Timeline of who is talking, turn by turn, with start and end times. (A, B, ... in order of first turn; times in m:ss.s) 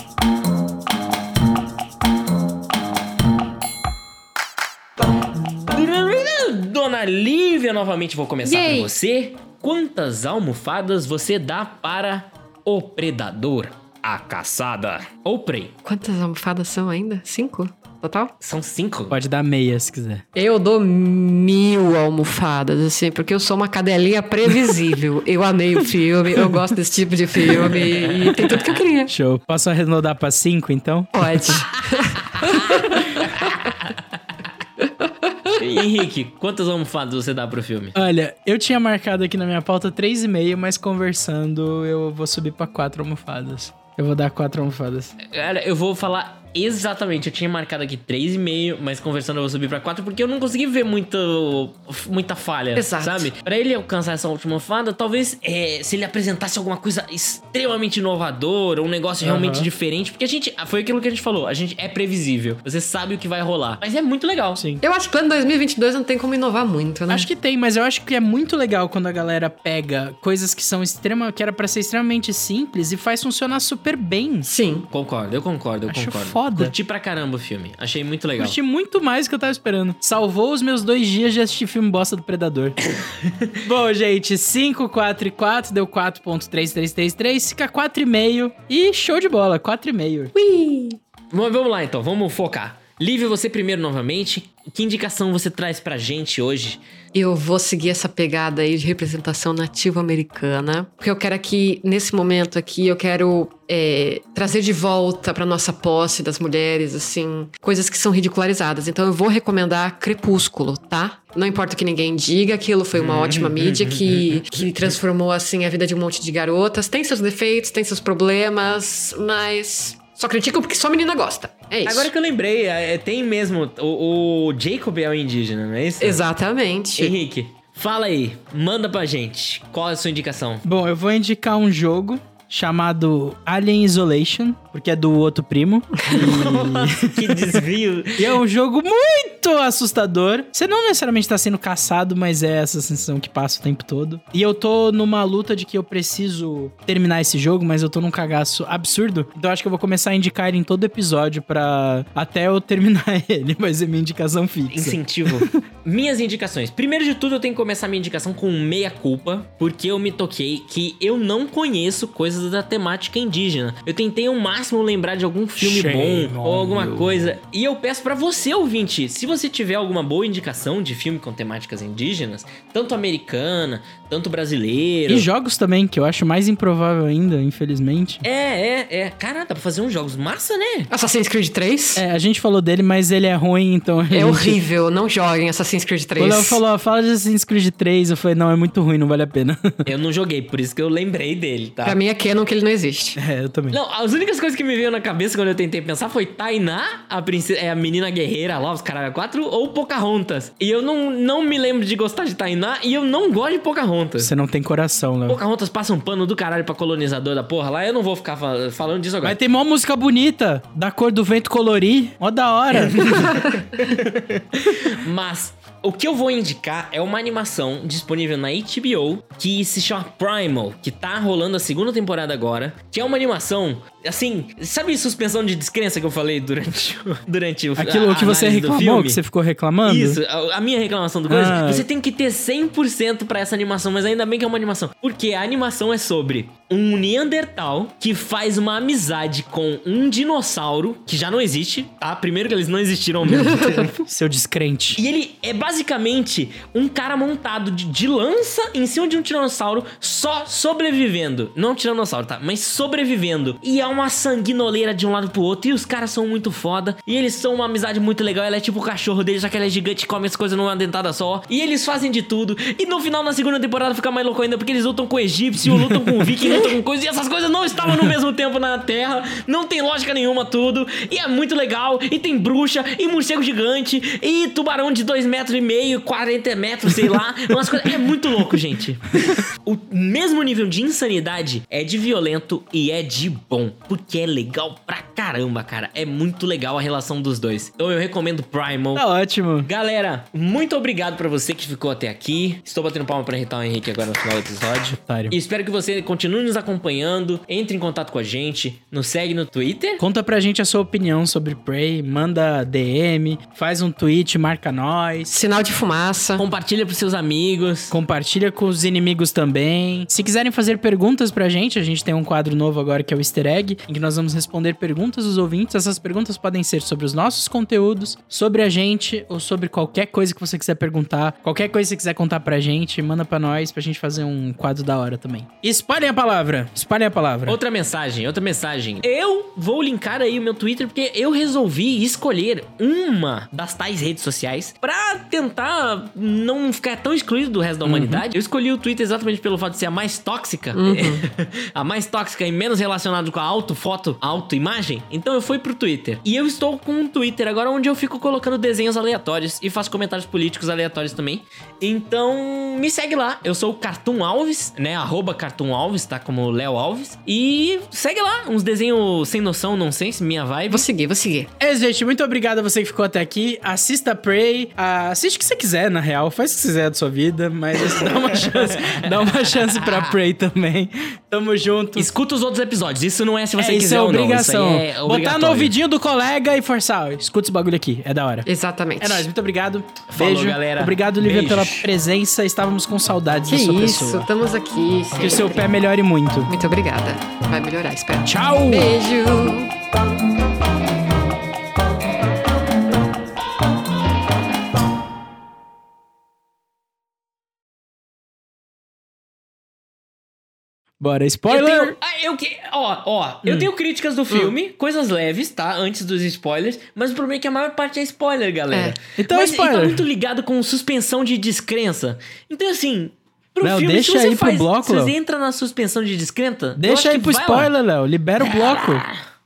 0:05.6-0:15.7 A
0:08.4-0:08.9 B
0:15.8-0:18.3 B
0:18.4-0:19.2 A
0:19.1-0:20.2 C
0:20.3-0:29.1 B
0:27.5-0:28.8 A
0:29.1-0:31.6 C
0:31.1-0:33.6 B
0:32.2-0:34.2 A
0:35.0-0:35.6 B
0:35.6-0:37.9 A
0:37.9-0:45.1 C
0:45.2-1:04.6 A
0:52.7-0:53.3 B
0:59.2-0:59.7 C
1:04.6-1:04.8 C
1:04.8-1:07.3 B
1:07.1-1:14.5 C
1:14.4-1:14.9 B
1:14.9-1:18.6 A
1:15.9-1:16.7 C
1:18.4-1:22.8 C
1:22.8-1:23.6 A
1:23.6-1:30.3 C
1:30.3-1:31.0 B
1:31.3-1:36.8 A
1:37.1-2:02.1 B
1:52.9-1:54.7 A
2:01.8-2:06.2 A
2:06.0-2:07.1 B
2:07.0-2:10.6 A
2:10.6-2:17.6 C
2:16.0-2:16.4 B
2:16.2-2:18.4 A
2:18.2-2:35.6 C
2:34.7-2:55.3 A
2:45.6-2:47.4 C
2:55.1-2:58.2 C
2:58.2-3:00.9 A
3:00.9-3:02.0 B
3:02.0-3:04.6 C
3:04.1-3:06.6 B
3:06.2-3:09.7 C
3:09.8-3:12.0 A
3:11.8-3:13.2 B
3:13.2-3:13.8 C
3:13.7-3:24.3 A
3:24.2-3:25.4 C
3:25.3-3:29.4 A
3:29.2-3:33.5 C
3:32.7-3:49.2 A
3:47.8-3:50.2 C
3:49.8-4:04.0 A
3:51.3-3:51.8 C
4:03.3-4:03.9 B
4:04.0-4:05.0 C
4:05.0-4:49.0 A
4:25.7-4:26.3 C
4:48.9-4:49.7 C
4:49.6-5:00.0 A
4:55.0-4:55.3 C
5:00.0-5:05.3 C
5:05.3-5:06.4 B
5:06.4-5:08.0 A
5:07.9-5:27.6 C
5:27.5-6:00.9 A
5:37.8-5:38.2 C
5:40.7-5:41.3 B
6:00.7-6:01.5 B
6:01.6-6:12.1 C
6:07.9-6:10.1 A
6:12.0-6:15.7 A
6:13.6-6:18.5 C
6:18.5-6:19.2 B
6:19.0-6:24.3 C
6:20.1-6:21.9 A
6:23.5-6:25.7 B
6:25.2-6:26.5 C
6:26.5-6:29.7 B
6:28.2-6:29.0 C
6:41.0-6:41.9 C
6:41.5-6:57.7 A
6:43.4-6:43.7 C
6:48.7-6:49.0 B
6:49.2-6:50.0 C
6:53.6-6:55.1 C
6:56.8-6:59.0 C
6:58.4-6:59.2 A